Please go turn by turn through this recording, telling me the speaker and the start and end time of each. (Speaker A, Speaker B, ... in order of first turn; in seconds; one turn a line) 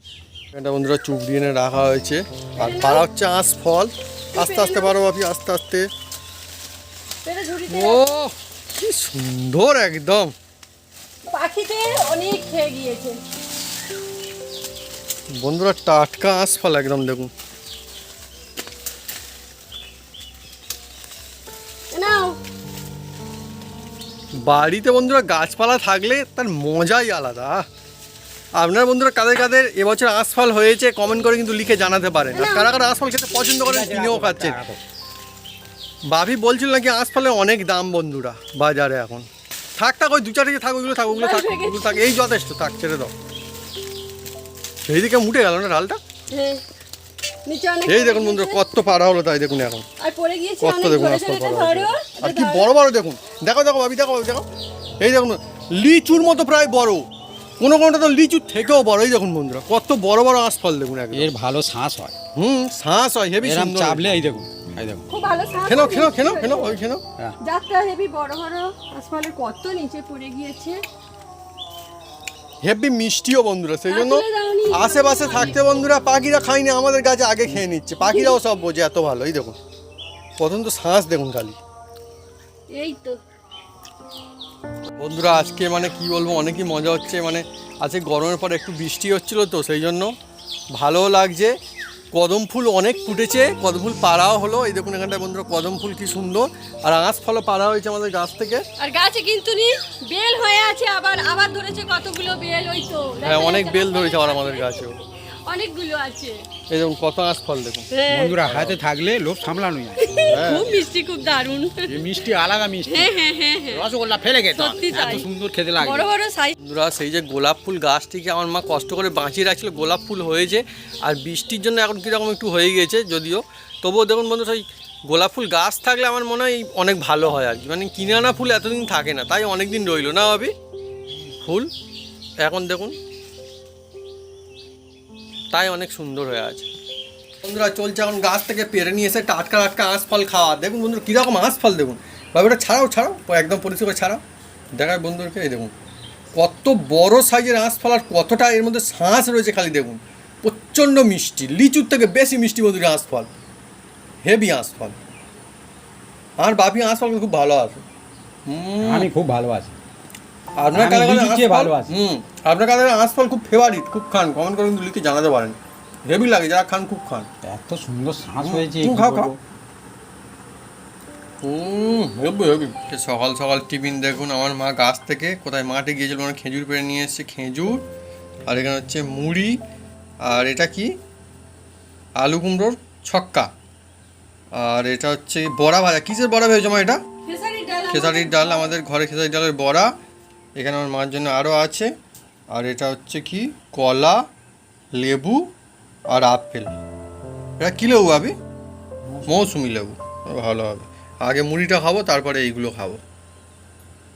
Speaker A: 0.5-5.9
Speaker B: 2.6-3.0
Speaker B: 4.3-4.9
Speaker B: 7.2-8.2
Speaker A: 7.7-10.3
Speaker B: 11.3-13.2
Speaker A: 15.4-17.3
Speaker B: 21.9-22.4
Speaker A: 24.4-27.6
Speaker A: 28.6-34.6
Speaker B: 32.3-32.8
Speaker C: 33.6-34.8
Speaker A: 36.1-39.3
Speaker A: 39.8-43.1
Speaker B: 41.1-42.1
Speaker A: 44.9-46.0
Speaker B: 46.3-46.6
Speaker B: 47.5-48.6
Speaker A: 47.9-49.9
Speaker B: 50.0-52.7
Speaker A: 50.6-54.5
Speaker A: 55.0-57.0
Speaker A: 57.6-61.3
Speaker C: 61.1-62.2
Speaker A: 62.4-64.0
Speaker C: 63.4-65.1
Speaker B: 65.1-66.8
Speaker A: 65.7-67.0
Speaker B: 67.4-70.8
Speaker A: 72.6-79.6
Speaker B: 73.9-75.5
Speaker B: 78.0-78.4
Speaker A: 80.4-81.6
Speaker B: 82.7-83.2
Speaker A: 85.0-90.1
Speaker A: 90.7-91.5
Speaker A: 92.1-98.6
Speaker B: 98.8-106.4
Speaker A: 103.2-105.0
Speaker A: 106.7-107.9
Speaker B: 107.9-108.4
Speaker C: 108.1-110.0
Speaker A: 108.5-108.8
Speaker B: 110.0-112.0
Speaker A: 110.3-110.7
Speaker C: 111.9-113.1
Speaker B: 112.8-113.9
Speaker C: 113.7-116.1
Speaker B: 114.5-116.6
Speaker A: 116.6-130.5
Speaker A: 131.3-131.7
Speaker A: 132.4-132.9
Speaker A: 135.5-136.7
Speaker A: 137.4-144.2
Speaker A: 144.8-145.7
Speaker A: 146.3-153.3
Speaker A: 154.2-155.0
Speaker A: 156.4-157.8
Speaker A: 158.5-159.1
Speaker C: 158.8-159.8
Speaker A: 160.6-167.3
Speaker C: 160.7-161.9
Speaker C: 167.4-169.4
Speaker A: 168.4-169.3
Speaker A: 171.4-177.8
Speaker A: 178.5-179.6
Speaker A: 180.2-180.9
Speaker A: 182.2-183.5
Speaker A: 184.5-187.0
Speaker B: 187.2-188.8
Speaker A: 187.9-189.9
Speaker A: 190.6-191.9
Speaker A: 192.5-194.2
Speaker A: 195.0-195.5
Speaker A: 196.1-196.7
Speaker A: 197.6-198.3
Speaker A: 199.3-203.0